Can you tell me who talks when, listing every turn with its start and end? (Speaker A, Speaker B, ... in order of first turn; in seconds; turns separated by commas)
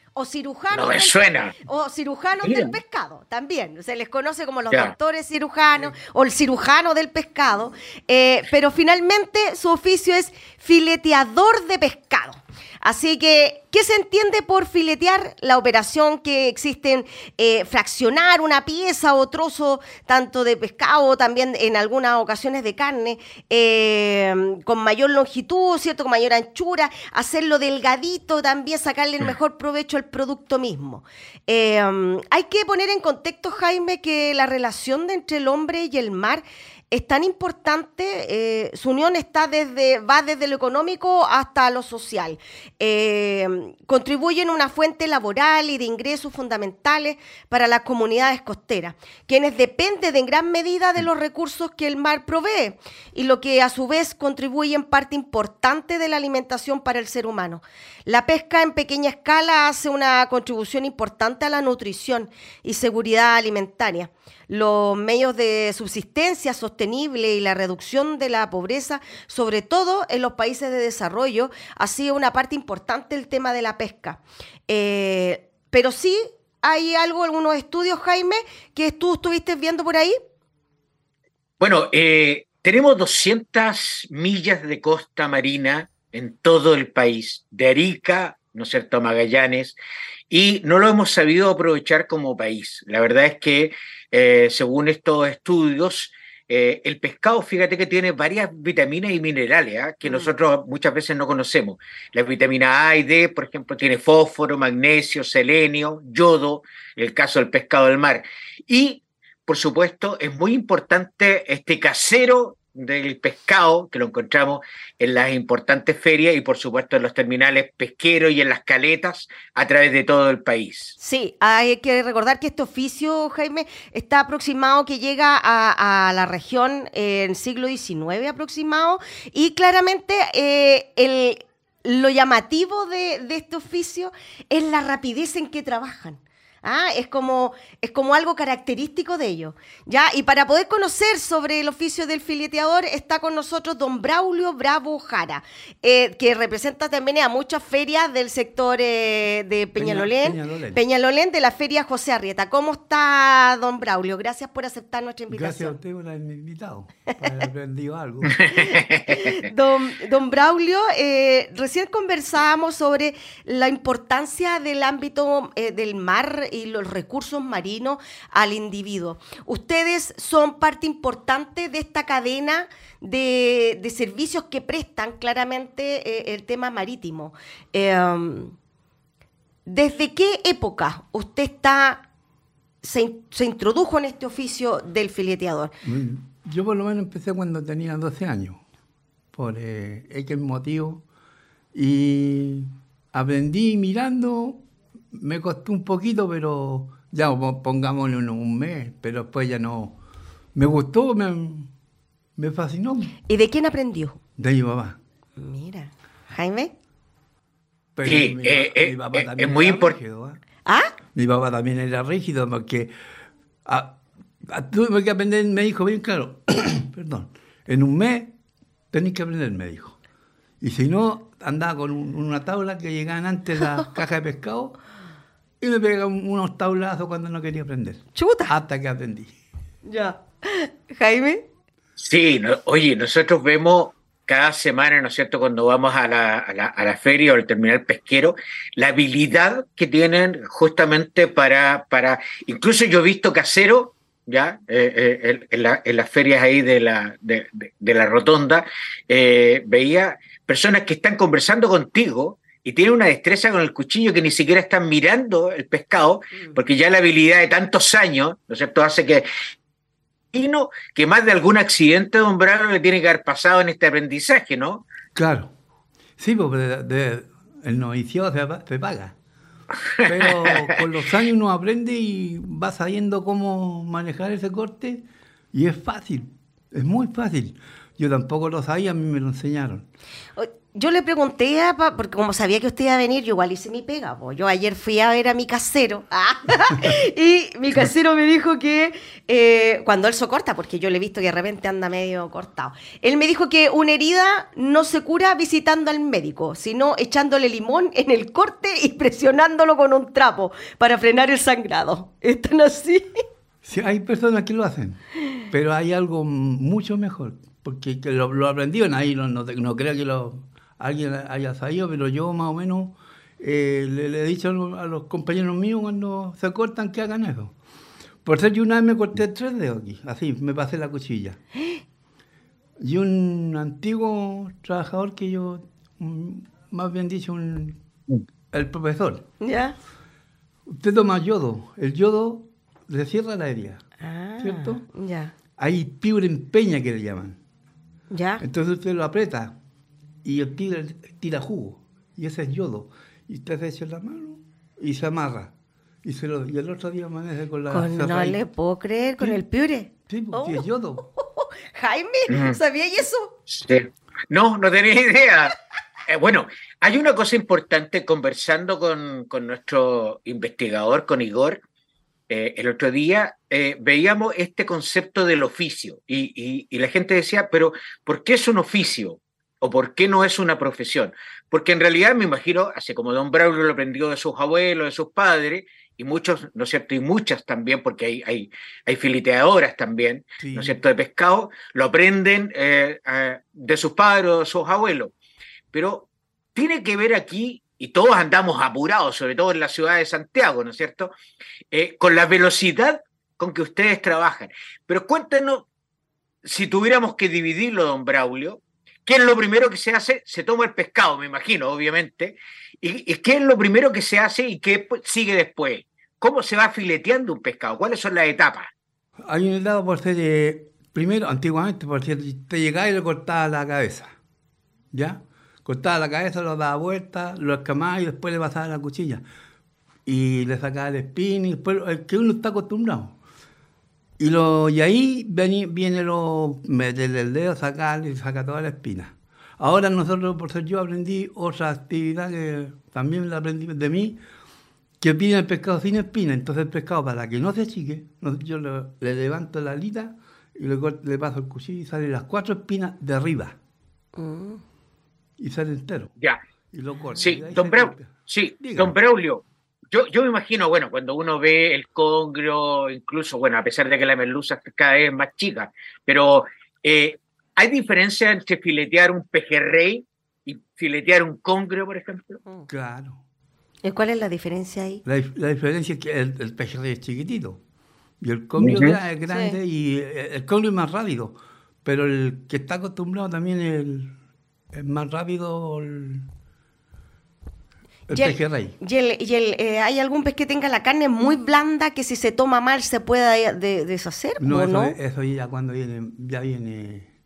Speaker A: 0.1-80.2, Speaker B: 0.7-1.6, Speaker B: 2.4-2.8, Speaker B: 81.6-89.8, Speaker B: 90.3-121.0, Speaker A: 100.0-100.3, Speaker A: 121.0-155.8, Speaker C: 149.8-150.8, Speaker C: 155.3-158.7, Speaker B: 158.3-159.1, Speaker A: 158.5-178.6, Speaker A: 179.7-182.1, Speaker A: 182.8-185.7, Speaker C: 185.8-188.6, Speaker C: 189.3-191.0, Speaker C: 191.7-200.0, Speaker C: 200.5-201.7, Speaker C: 202.4-203.2, Speaker A: 203.3-204.2, Speaker C: 204.4-205.0, Speaker A: 205.4-206.7, Speaker C: 207.9-210.4, Speaker B: 208.0-209.9, Speaker A: 210.7-210.9, Speaker C: 211.1-212.9, Speaker C: 213.6-218.3, Speaker C: 218.9-220.0, Speaker C: 220.6-224.8, Speaker C: 225.6-229.3, Speaker A: 228.1-228.5, Speaker A: 229.8-231.4, Speaker B: 232.0-259.2, Speaker B: 260.3-264.8, Speaker C: 265.1-265.5, Speaker C: 266.2-269.1, Speaker C: 270.0-279.9, Speaker A: 280.4-303.2, Speaker C: 303.6-317.5, Speaker C: 318.2-321.4, Speaker A: 321.6-321.8, Speaker C: 322.8-327.8, Speaker C: 328.5-329.3, Speaker A: 329.4-329.8, Speaker C: 330.6-333.9, Speaker A: 334.0-335.3, Speaker C: 334.4-334.8, Speaker C: 335.6-337.4, Speaker A: 338.1-338.4, Speaker C: 338.4-339.6, Speaker C: 340.2-345.5, Speaker C: 346.0-348.4, Speaker A: 347.7-353.4, Speaker C: 350.1-351.1, Speaker B: 352.3-352.6, Speaker B: 353.5-361.6, Speaker B: 362.3-385.1, Speaker C: 380.4-380.8, Speaker B: 385.7-391.1, Speaker B: 391.7-395.6, Speaker B: 396.4-408.7, Speaker C: 409.2-414.1, Speaker C: 414.9-419.2, Speaker C: 420.1-423.1, Speaker C: 424.2-434.2, Speaker C: 435.0-443.6, Speaker A: 444.1-444.6, Speaker C: 445.4-446.1, Speaker C: 446.7-448.9, Speaker B: 447.2-462.4, Speaker C: 462.7-463.2, Speaker A: 463.8-465.0, Speaker C: 465.0-467.6, Speaker C: 468.2-474.1, Speaker B: 468.6-468.9, Speaker A: 469.3-469.6, Speaker C: 474.7-476.3, Speaker C: 478.1-478.8, Speaker A: 478.1-484.9, Speaker C: 484.4-487.1